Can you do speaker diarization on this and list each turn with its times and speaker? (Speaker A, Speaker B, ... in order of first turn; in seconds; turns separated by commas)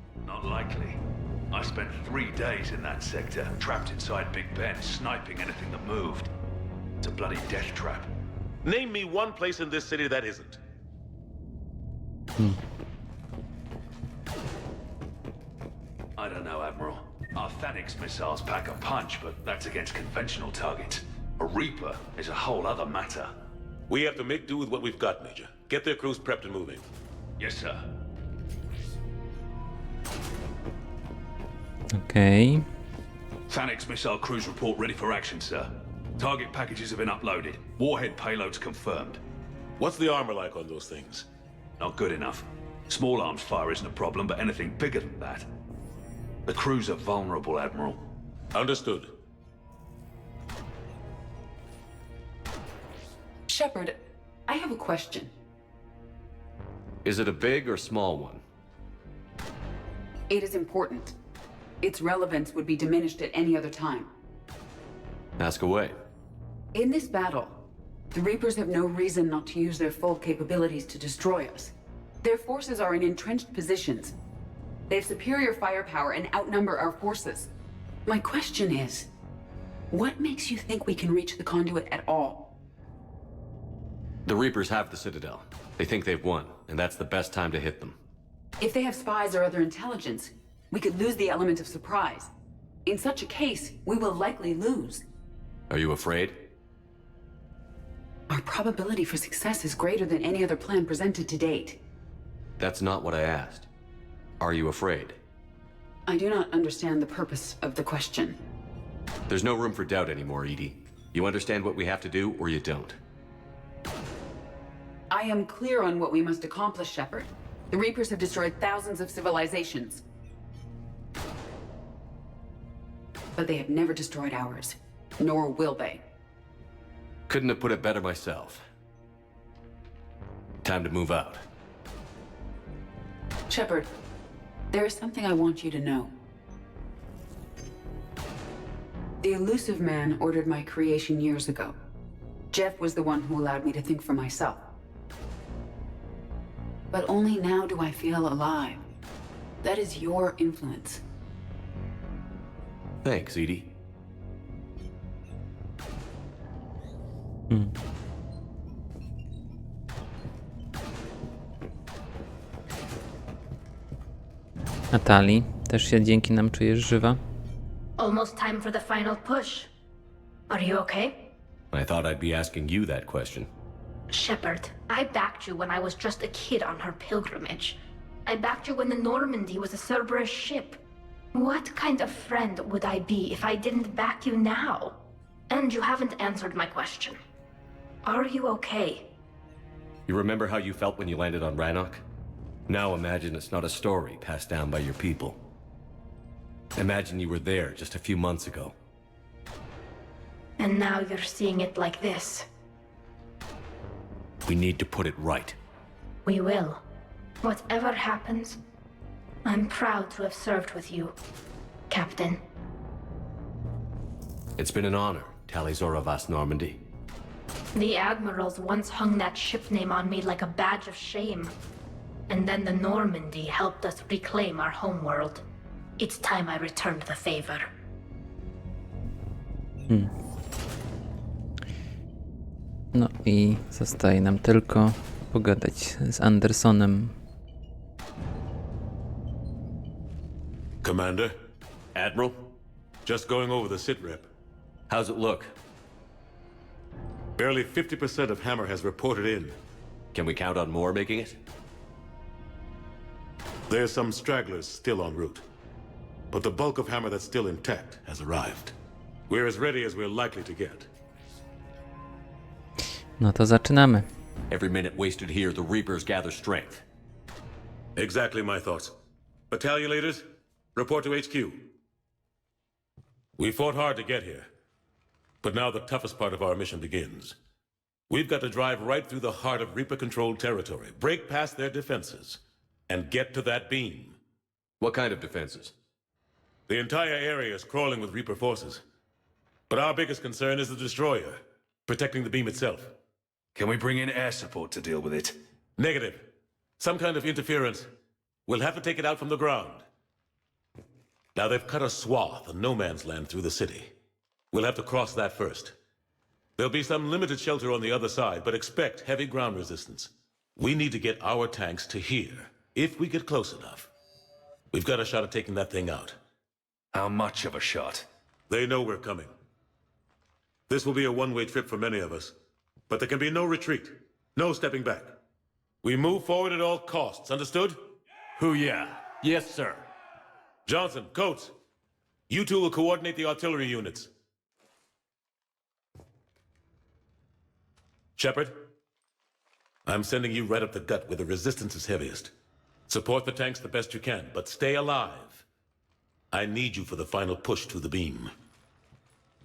Speaker A: 0.2-1.0, Speaker A: 1.5-6.3, Speaker A: 7.0-8.1, Speaker B: 8.6-10.6, Speaker A: 16.2-23.3, Speaker B: 23.9-26.8, Speaker A: 27.4-27.9, Speaker C: 31.9-32.6, Speaker A: 33.5-39.2, Speaker B: 39.8-41.3, Speaker A: 41.8-45.5, Speaker A: 46.5-48.0, Speaker B: 48.5-49.1, Speaker D: 53.5-55.3, Speaker E: 57.0-58.4, Speaker D: 60.3-61.1, Speaker D: 61.8-64.1, Speaker E: 65.4-66.0, Speaker D: 66.7-74.2, Speaker D: 74.9-77.5, Speaker D: 78.1-79.1, Speaker D: 79.9-82.5, Speaker E: 84.3-88.0, Speaker D: 88.6-92.3, Speaker D: 92.8-95.0, Speaker E: 95.7-96.5, Speaker D: 98.3-101.8, Speaker E: 102.6-103.7, Speaker E: 104.4-105.2, Speaker D: 106.1-108.4, Speaker E: 109.3-113.0, Speaker D: 115.1-120.0, Speaker D: 123.4-126.0, Speaker E: 127.3-128.6, Speaker E: 130.6-131.4, Speaker D: 133.5-133.9, Speaker D: 134.7-136.1, Speaker D: 139.2-141.8, Speaker D: 142.5-144.7, Speaker D: 146.9-148.8, Speaker D: 149.6-151.0, Speaker E: 153.0-153.7, Speaker C: 164.9-167.2, Speaker F: 168.0-169.7, Speaker F: 170.5-171.2, Speaker E: 171.7-173.5, Speaker F: 174.1-180.8, Speaker F: 181.3-185.0, Speaker F: 185.5-187.2, Speaker F: 188.1-189.1, Speaker E: 190.1-192.0, Speaker E: 192.7-195.4, Speaker E: 196.8-198.8, Speaker F: 200.6-202.5, Speaker E: 204.4-205.6, Speaker F: 206.3-206.8, Speaker F: 207.4-208.6, Speaker F: 209.4-211.1, Speaker F: 211.9-212.4, Speaker E: 214.6-216.8, Speaker F: 217.8-221.5, Speaker F: 222.3-225.4, Speaker F: 226.0-227.7, Speaker C: 232.9-237.2, Speaker B: 240.8-241.3, Speaker E: 241.9-242.5, Speaker B: 243.1-244.3, Speaker E: 244.9-245.5, Speaker B: 247.4-249.6, Speaker E: 250.1-251.4, Speaker B: 253.7-255.4, Speaker B: 256.3-258.7, Speaker B: 259.3-260.9, Speaker C: 263.2-264.1, Speaker E: 264.5-266.9, Speaker B: 268.0-268.9, Speaker B: 269.5-271.7, Speaker B: 273.4-274.5, Speaker B: 275.4-277.4, Speaker B: 278.1-284.2, Speaker E: 284.8-285.7, Speaker B: 286.7-288.8, Speaker B: 289.7-292.9, Speaker A: 293.6-295.3, Speaker B: 295.8-296.3, Speaker B: 296.8-297.9, Speaker B: 298.5-299.9, Speaker B: 301.4-303.9, Speaker B: 304.5-305.8, Speaker B: 306.6-313.9, Speaker B: 314.7-316.2, Speaker A: 316.9-318.1, Speaker B: 318.5-319.3, Speaker B: 320.7-322.3, Speaker B: 322.9-325.1, Speaker B: 325.8-327.8, Speaker E: 328.4-329.8, Speaker B: 330.7-331.5, Speaker B: 332.3-334.1, Speaker B: 338.2-338.6, Speaker B: 339.9-342.3, Speaker B: 342.9-345.4, Speaker B: 346.3-348.3